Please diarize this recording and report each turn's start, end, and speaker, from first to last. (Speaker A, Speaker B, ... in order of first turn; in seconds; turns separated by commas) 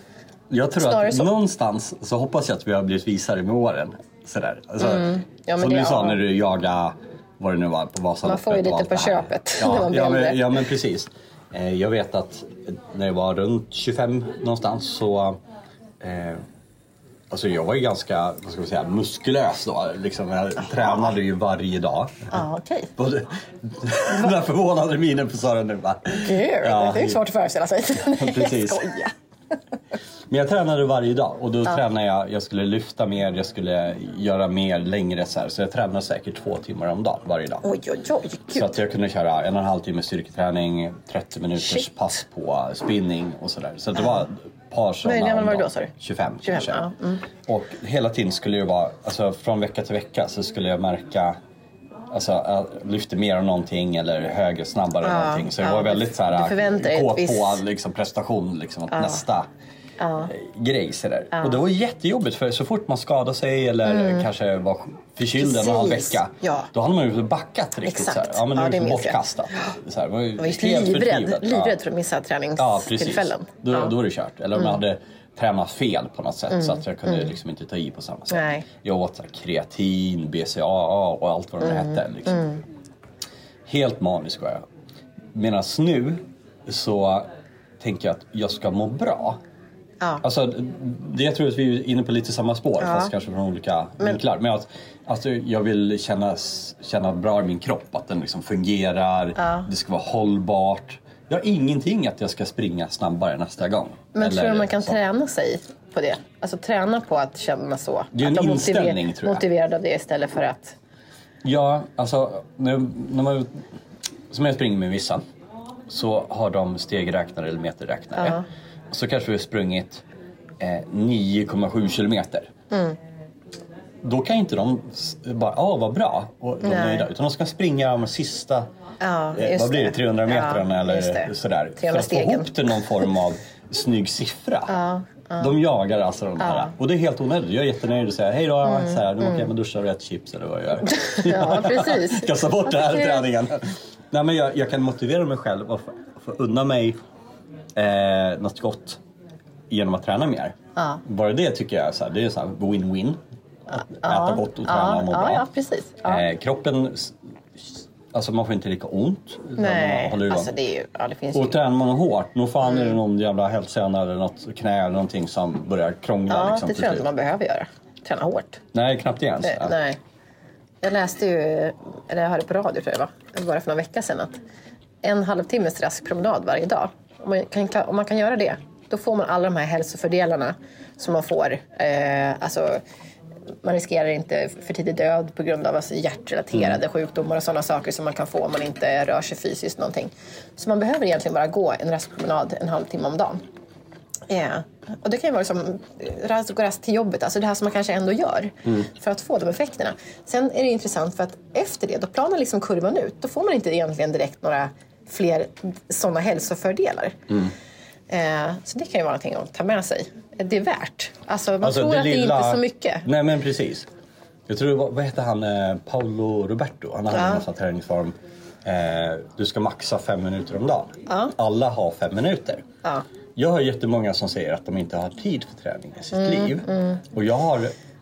Speaker A: 0.5-15.4, Speaker B: 0.8-1.3, Speaker B: 4.8-6.2, Speaker B: 8.2-10.4, Speaker A: 16.0-16.4, Speaker A: 17.3-22.4, Speaker B: 22.3-22.9, Speaker A: 23.0-27.2, Speaker B: 26.1-29.1, Speaker A: 28.0-28.9, Speaker A: 30.3-37.6, Speaker B: 37.6-38.8, Speaker A: 38.5-46.9, Speaker B: 45.0-45.9, Speaker B: 46.4-47.2, Speaker A: 47.5-51.3, Speaker A: 52.1-59.5, Speaker B: 55.0-57.6, Speaker B: 58.9-59.2, Speaker B: 60.0-60.3, Speaker A: 60.3-71.8, Speaker B: 61.3-61.6, Speaker B: 63.9-64.3, Speaker B: 65.4-66.7, Speaker B: 67.8-69.2, Speaker B: 70.4-73.9, Speaker A: 72.6-82.5, Speaker B: 76.6-77.3, Speaker B: 78.3-78.7, Speaker B: 81.6-82.6, Speaker A: 83.7-84.6, Speaker A: 85.3-87.3, Speaker A: 87.8-89.4, Speaker A: 90.2-105.0, Speaker B: 92.8-93.1, Speaker B: 99.4-99.7, Speaker B: 104.1-110.8, Speaker A: 108.1-109.4, Speaker A: 111.4-113.6, Speaker A: 114.3-115.2, Speaker A: 115.9-120.0, Speaker B: 118.2-118.4, Speaker A: 120.6-122.5, Speaker B: 122.7-123.0, Speaker A: 124.0-128.7, Speaker B: 126.6-127.1, Speaker B: 129.0-132.5, Speaker A: 129.3-134.7, Speaker B: 134.7-135.5, Speaker A: 135.4-146.9, Speaker B: 136.4-136.7, Speaker B: 138.6-139.5, Speaker B: 140.9-143.2, Speaker A: 147.7-149.0, Speaker A: 149.7-153.2, Speaker B: 150.8-151.0, Speaker B: 153.7-156.2, Speaker A: 153.8-155.4, Speaker A: 156.0-160.5, Speaker B: 159.6-161.6, Speaker A: 161.3-167.1, Speaker B: 162.6-162.9, Speaker B: 166.3-168.6, Speaker A: 168.7-169.7, Speaker B: 169.4-170.0, Speaker B: 170.8-174.3, Speaker B: 175.0-182.8, Speaker B: 183.6-193.4, Speaker B: 194.3-207.3, Speaker B: 208.1-213.1, Speaker A: 211.6-213.9, Speaker A: 214.5-218.1, Speaker B: 217.1-217.4, Speaker A: 218.6-222.6, Speaker B: 221.1-221.3, Speaker A: 223.4-227.7, Speaker B: 226.1-227.0